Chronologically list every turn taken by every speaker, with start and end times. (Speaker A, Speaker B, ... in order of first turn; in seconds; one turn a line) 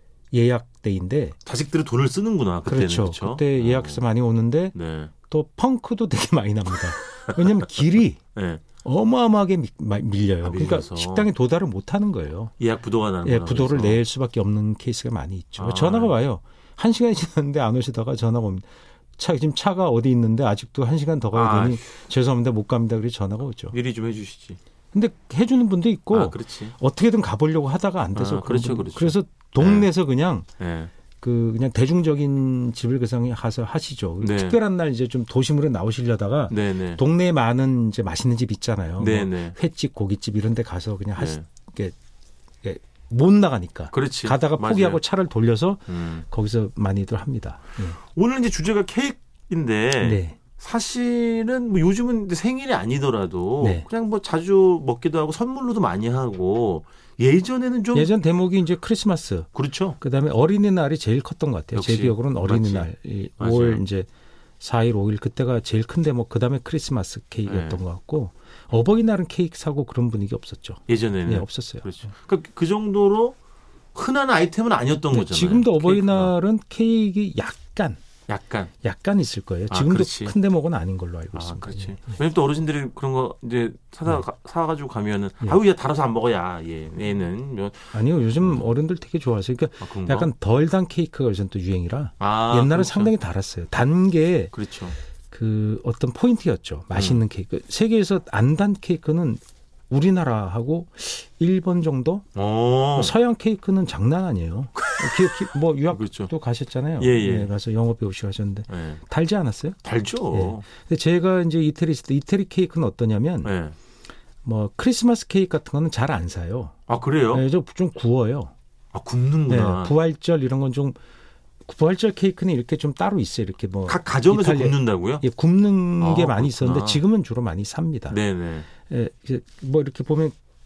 Speaker A: 0.3-1.4
Speaker B: 1.4-4.1
Speaker A: 2.6-8.2
Speaker B: 4.7-5.2
Speaker B: 8.3-8.7
Speaker A: 8.8-12.5
Speaker B: 10.4-11.3
Speaker B: 12.6-14.0
Speaker A: 13.2-23.8
Speaker B: 15.6-16.2
Speaker B: 21.3-22.0
Speaker B: 23.7-24.6
Speaker A: 24.9-30.5
Speaker B: 26.1-26.8
Speaker B: 28.1-29.9
Speaker B: 30.6-30.9
Speaker A: 31.2-41.9
Speaker B: 34.2-34.6
Speaker B: 36.5-37.0
Speaker B: 39.0-39.6
Speaker B: 41.1-41.5
Speaker A: 42.6-48.0
Speaker B: 43.9-45.0
Speaker B: 45.9-46.2
Speaker B: 48.0-58.1
Speaker A: 50.0-50.5
Speaker A: 53.6-53.9
Speaker A: 57.9-59.5
Speaker B: 59.5-60.0
Speaker A: 60.0-64.1
Speaker B: 61.7-63.8
Speaker A: 64.6-72.1
Speaker B: 67.4-67.8
Speaker B: 70.9-73.4
Speaker B: 73.9-76.4
Speaker A: 75.1-78.0
Speaker B: 78.3-78.8
Speaker A: 78.8-82.2
Speaker B: 79.7-80.4
Speaker B: 81.3-88.7
Speaker A: 87.9-94.5
Speaker B: 89.8-90.3
Speaker B: 92.2-93.1
Speaker B: 94.5-95.0
Speaker A: 95.3-102.3
Speaker B: 96.9-97.2
Speaker B: 102.3-103.1
Speaker A: 103.0-109.8
Speaker B: 104.8-105.3
Speaker B: 105.9-106.3
Speaker B: 107.0-107.6
Speaker B: 108.7-109.0
Speaker B: 109.8-110.7
Speaker A: 110.3-113.5
Speaker B: 113.4-113.8
Speaker A: 114.4-116.8
Speaker B: 116.9-117.5
Speaker A: 117.3-118.5
Speaker B: 118.9-120.0
Speaker A: 119.5-121.0
Speaker A: 121.7-128.2
Speaker B: 123.9-125.2
Speaker B: 126.0-127.0
Speaker B: 128.1-128.8
Speaker A: 128.8-130.3